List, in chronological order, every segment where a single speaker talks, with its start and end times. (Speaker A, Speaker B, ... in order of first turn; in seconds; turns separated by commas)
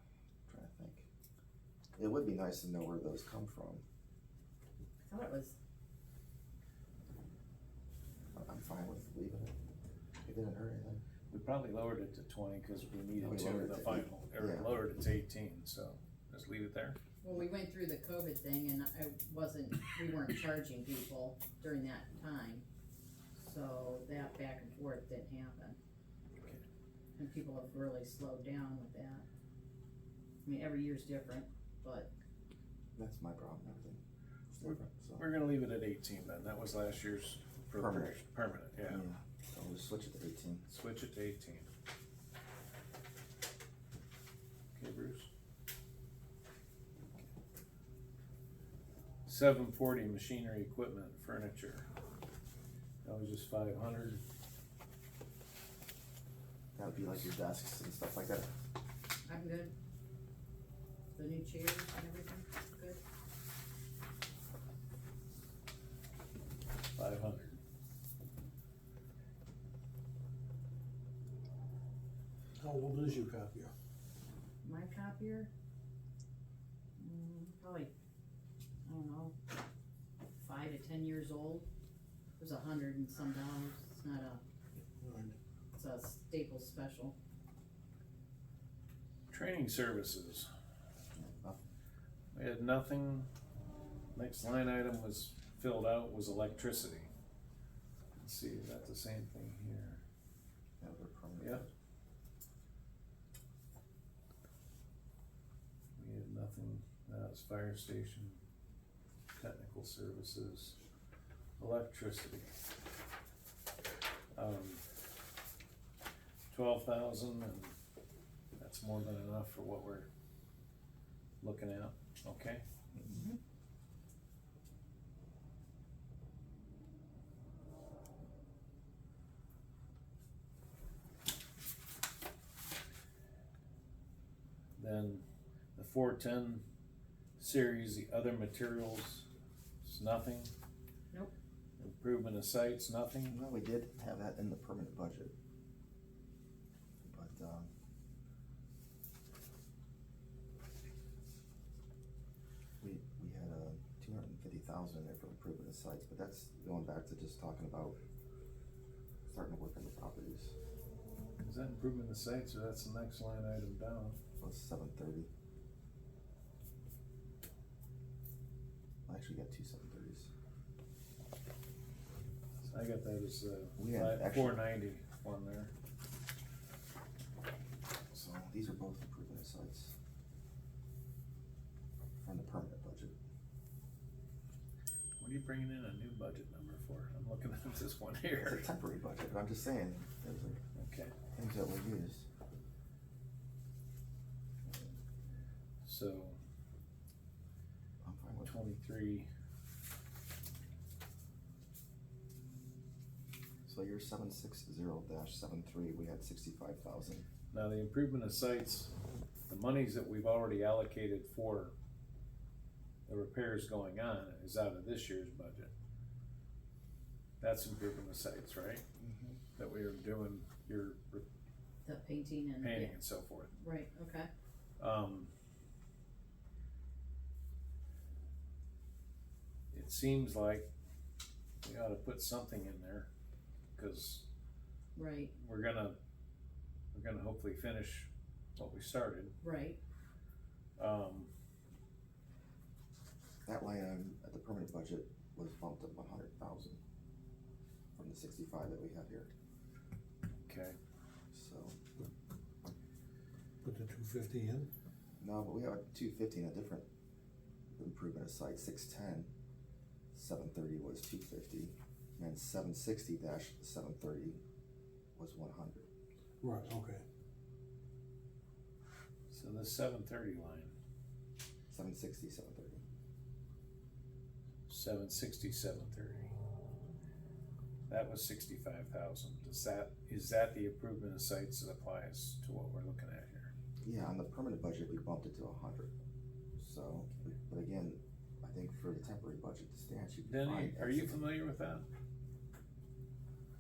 Speaker A: 0.5-1.1, Speaker A: 2.0-3.8, Speaker B: 5.0-5.6, Speaker A: 8.3-9.5, Speaker A: 10.2-11.0, Speaker C: 11.3-17.0, Speaker A: 13.2-14.8, Speaker B: 17.2-22.6, Speaker B: 23.4-25.8, Speaker B: 27.2-29.2, Speaker B: 30.4-32.1, Speaker A: 33.0-34.0, Speaker A: 34.6-35.3, Speaker C: 34.6-39.1, Speaker A: 37.8-38.2, Speaker A: 38.9-40.7, Speaker C: 40.7-41.7, Speaker C: 44.8-45.3, Speaker C: 49.3-51.9, Speaker C: 53.0-54.2, Speaker A: 56.8-58.5, Speaker B: 59.3-59.7, Speaker B: 61.1-63.0, Speaker C: 67.0-67.6, Speaker D: 72.6-73.7, Speaker B: 74.6-75.5, Speaker B: 77.0-77.9, Speaker B: 78.9-79.3, Speaker B: 80.4-81.7, Speaker B: 82.4-84.4, Speaker D: 84.8-85.4, Speaker B: 85.7-87.2, Speaker C: 89.3-90.5, Speaker A: 91.2-91.6, Speaker C: 92.3-93.3, Speaker C: 94.1-97.1, Speaker C: 98.2-100.0, Speaker A: 100.8-101.7, Speaker C: 106.0-108.4, Speaker C: 109.4-110.8, Speaker C: 111.6-112.5, Speaker C: 114.3-114.8, Speaker C: 116.5-117.7, Speaker C: 118.6-120.1, Speaker C: 121.4-122.6, Speaker B: 123.1-123.4, Speaker C: 134.8-135.2, Speaker C: 135.8-136.6, Speaker C: 137.4-139.3, Speaker C: 139.8-140.5, Speaker C: 141.8-143.4, Speaker A: 143.3-145.3, Speaker A: 147.0-147.7, Speaker A: 152.8-158.0, Speaker A: 159.3-160.6, Speaker C: 161.4-164.2, Speaker A: 164.4-165.3, Speaker A: 169.1-170.3, Speaker C: 172.6-175.7, Speaker A: 173.8-174.6, Speaker A: 178.1-180.0, Speaker A: 182.2-183.2, Speaker C: 185.2-188.7, Speaker A: 188.4-190.6, Speaker C: 190.8-191.2, Speaker A: 191.3-192.3, Speaker C: 195.8-196.4, Speaker A: 198.0-198.6, Speaker C: 198.4-199.3, Speaker A: 203.7-207.3, Speaker C: 207.5-208.9, Speaker C: 209.5-211.7, Speaker C: 213.1-215.7, Speaker C: 217.4-218.8, Speaker A: 219.0-219.4, Speaker C: 219.6-221.2, Speaker B: 221.8-222.9, Speaker C: 222.6-223.5, Speaker B: 223.6-224.3, Speaker C: 224.8-225.3, Speaker C: 229.7-230.7, Speaker C: 231.6-233.1, Speaker C: 233.8-234.2, Speaker B: 234.9-235.3, Speaker C: 235.4-236.0, Speaker C: 236.9-239.4, Speaker B: 239.4-239.8, Speaker C: 240.8-241.3, Speaker A: 243.5-246.8, Speaker A: 248.0-249.3, Speaker C: 250.5-250.8, Speaker A: 251.3-251.8, Speaker D: 253.6-254.7, Speaker A: 255.2-256.9, Speaker A: 257.8-259.3, Speaker A: 260.1-264.4, Speaker A: 265.1-265.9, Speaker D: 266.4-267.0, Speaker C: 269.3-270.7, Speaker A: 271.7-272.8, Speaker C: 274.7-276.4, Speaker C: 277.9-283.5, Speaker A: 283.8-285.9, Speaker A: 286.6-291.2, Speaker C: 290.2-291.9